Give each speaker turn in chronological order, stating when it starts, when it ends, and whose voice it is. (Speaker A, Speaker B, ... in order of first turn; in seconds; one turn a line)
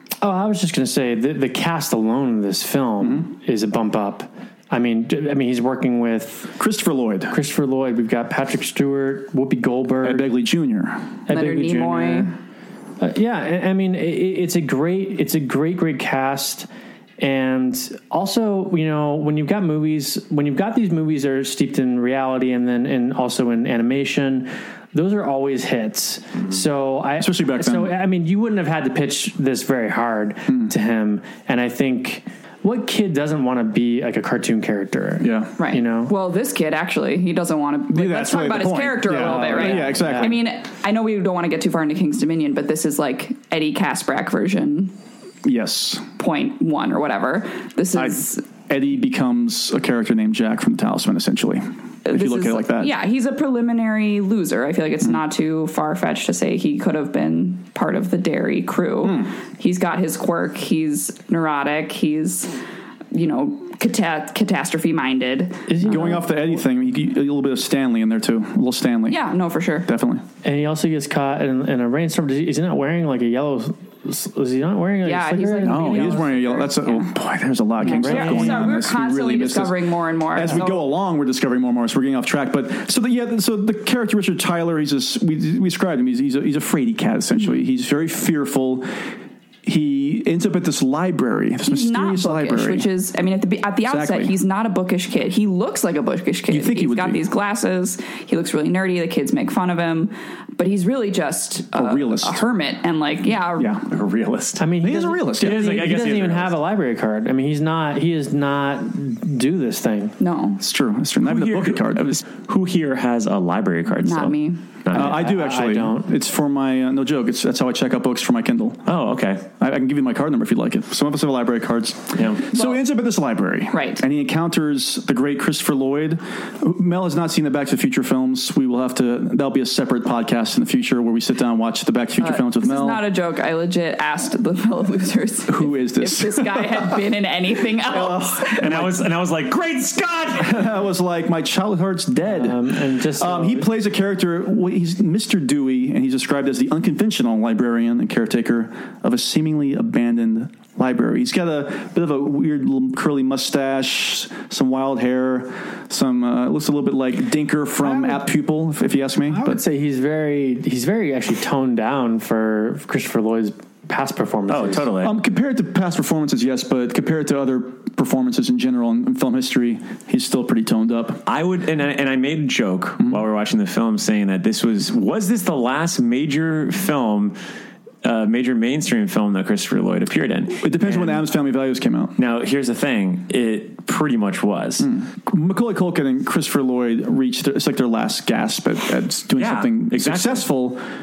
Speaker A: 0.2-6.5
Speaker B: 3.0-3.3
Speaker B: 6.6-7.3
Speaker A: 7.3-10.3
Speaker B: 10.0-11.2
Speaker C: 11.3-12.3
Speaker A: 11.3-12.3
Speaker A: 13.0-16.7
Speaker A: 17.2-36.1
Speaker B: 27.2-28.0
Speaker B: 30.5-30.7
Speaker B: 35.2-35.5
Speaker C: 35.6-44.9
Speaker B: 37.9-40.4
Speaker A: 39.2-40.3
Speaker B: 45.4-46.1
Speaker C: 46.2-48.4
Speaker B: 48.0-52.9
Speaker C: 52.1-62.6
Speaker B: 59.0-59.3
Speaker C: 63.1-65.7
Speaker A: 65.7-66.3
Speaker B: 65.8-69.2
Speaker C: 69.1-69.9
Speaker B: 69.9-70.2
Speaker A: 70.4-76.6
Speaker C: 75.0-77.1
Speaker B: 75.6-89.0
Speaker A: 77.8-78.7
Speaker C: 77.9-80.8
Speaker B: 89.6-92.9
Speaker C: 91.7-103.8
Speaker B: 93.9-94.3
Speaker B: 96.5-97.2
Speaker B: 101.8-102.4
Speaker B: 103.6-103.8
Speaker D: 103.9-104.7
Speaker A: 104.6-110.1
Speaker B: 104.8-105.8
Speaker D: 105.4-106.5
Speaker C: 110.2-110.6
Speaker B: 110.6-112.2
Speaker D: 111.2-115.2
Speaker C: 114.0-114.6
Speaker B: 114.9-118.9
Speaker A: 114.9-116.1
Speaker D: 118.9-119.5
Speaker B: 119.6-133.0
Speaker D: 122.2-122.4
Speaker C: 122.5-122.8
Speaker C: 123.7-124.0
Speaker C: 132.2-138.6
Speaker B: 135.5-137.0
Speaker B: 137.8-139.0
Speaker D: 138.6-140.7
Speaker B: 140.4-159.6
Speaker A: 142.2-143.7
Speaker A: 157.8-158.1
Speaker A: 159.3-164.9
Speaker D: 164.5-165.1
Speaker B: 165.0-171.2
Speaker D: 171.3-177.4
Speaker D: 178.0-181.2
Speaker B: 180.6-182.2
Speaker D: 182.2-184.9
Speaker B: 184.8-190.8
Speaker D: 189.4-190.5